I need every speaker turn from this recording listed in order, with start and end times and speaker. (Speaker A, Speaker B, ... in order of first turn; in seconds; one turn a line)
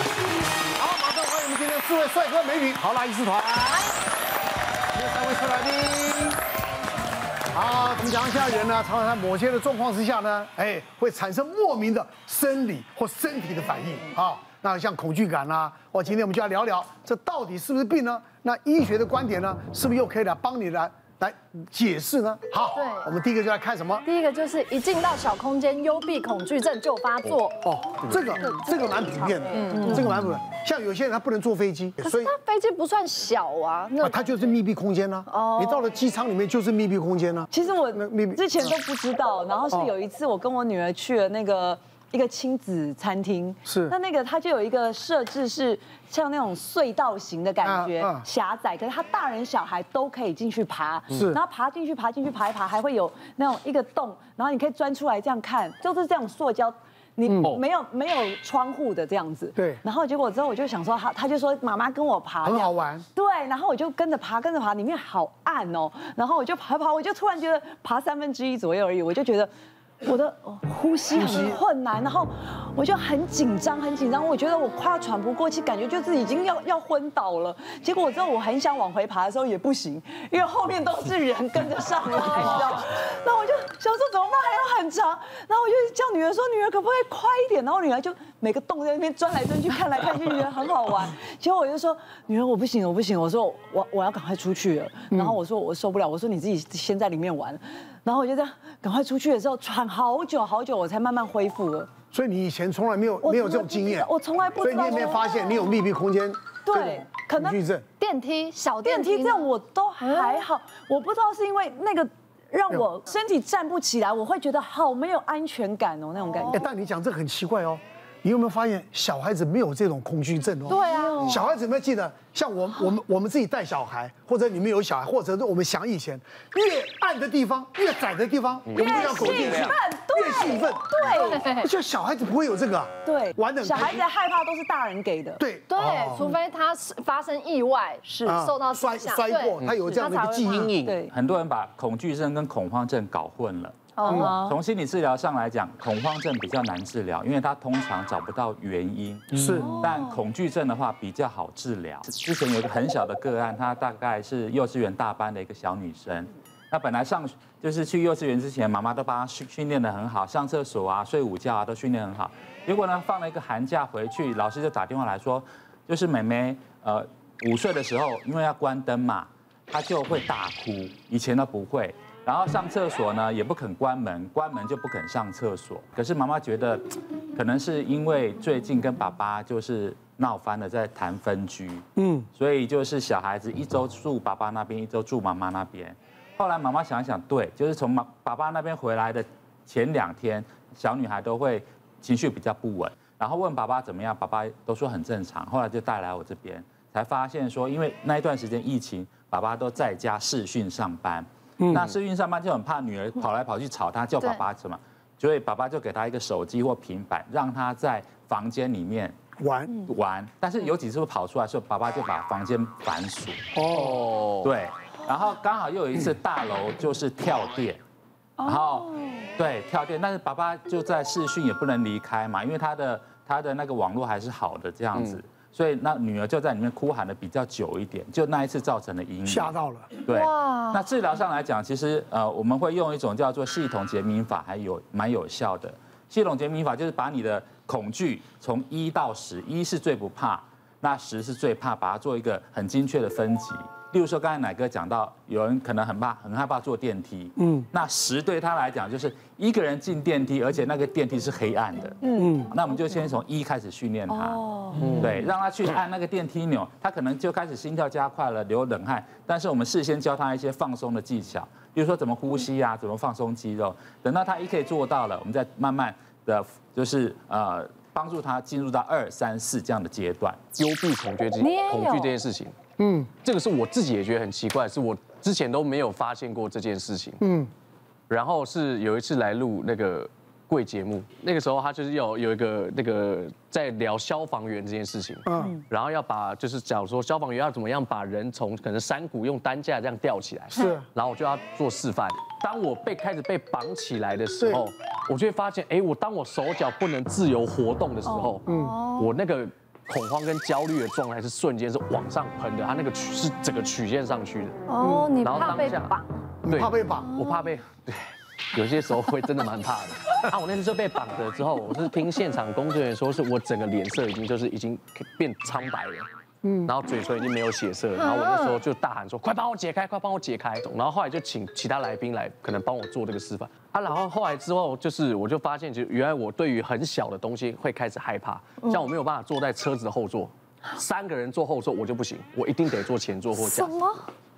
Speaker A: 0.8-3.9
Speaker A: 4.9-6.4
Speaker A: 7.5-24.1
Speaker B: 22.7-23.1
Speaker B: 24.0-27.6
Speaker A: 27.6-32.4
Speaker B: 28.4-30.0
Speaker C: 29.8-30.1
Speaker B: 32.0-34.4
Speaker A: 34.0-38.7
Speaker B: 35.3-35.9
Speaker C: 37.5-69.5
Speaker A: 43.7-43.9
Speaker A: 47.6-48.3
Speaker A: 62.4-63.0
Speaker C: 70.0-101.9
Speaker A: 71.2-71.6
Speaker A: 95.1-95.4
Speaker A: 102.1-104.1
Speaker C: 103.2-105.7
Speaker A: 104.6-107.9
Speaker C: 106.7-107.6
Speaker B: 108.0-109.5
Speaker C: 108.8-116.6
Speaker B: 110.0-110.4
Speaker B: 116.3-116.6
Speaker A: 116.5-130.9
Speaker B: 120.7-121.3
Speaker C: 120.7-121.5
Speaker D: 128.7-129.8
Speaker C: 128.8-131.5
Speaker B: 131.1-131.7
Speaker A: 131.5-134.0
Speaker C: 133.1-135.4
Speaker A: 135.4-136.3
Speaker B: 135.7-140.7
Speaker C: 138.0-138.4
Speaker A: 138.2-140.8
Speaker D: 140.5-141.0
Speaker C: 140.7-141.1
Speaker E: 141.1-209.2
Speaker B: 144.0-144.3
Speaker C: 144.0-144.6
Speaker A: 149.3-149.8
Speaker D: 149.3-149.7
Speaker C: 149.6-150.2
Speaker A: 182.0-182.3
Speaker A: 201.6-202.0
Speaker A: 209.4-209.8
Speaker E: 209.8-213.4
Speaker A: 213.6-214.0
Speaker D: 213.7-214.5
Speaker E: 214.4-217.8
Speaker C: 218.4-219.1
Speaker E: 218.4-229.5
Speaker A: 229.2-229.9
Speaker E: 230.1-252.0
Speaker B: 230.1-230.8
Speaker C: 252.0-252.5
Speaker A: 252.2-252.5
Speaker E: 252.5-270.4
Speaker C: 254.1-254.9
Speaker D: 254.8-255.1
Speaker D: 270.6-272.6
Speaker B: 271.4-272.2
Speaker A: 272.8-273.1
Speaker D: 273.1-277.2
Speaker A: 277.2-277.5
Speaker D: 278.1-304.6
Speaker A: 285.3-285.6
Speaker A: 290.5-290.9
Speaker B: 298.4-299.1
Speaker A: 298.5-298.8
Speaker B: 304.7-306.1
Speaker A: 304.8-305.1
Speaker D: 305.2-316.1
Speaker A: 306.4-307.2
Speaker B: 307.1-307.5
Speaker A: 316.4-316.7
Speaker D: 316.6-333.7
Speaker B: 318.0-318.5
Speaker B: 333.4-334.0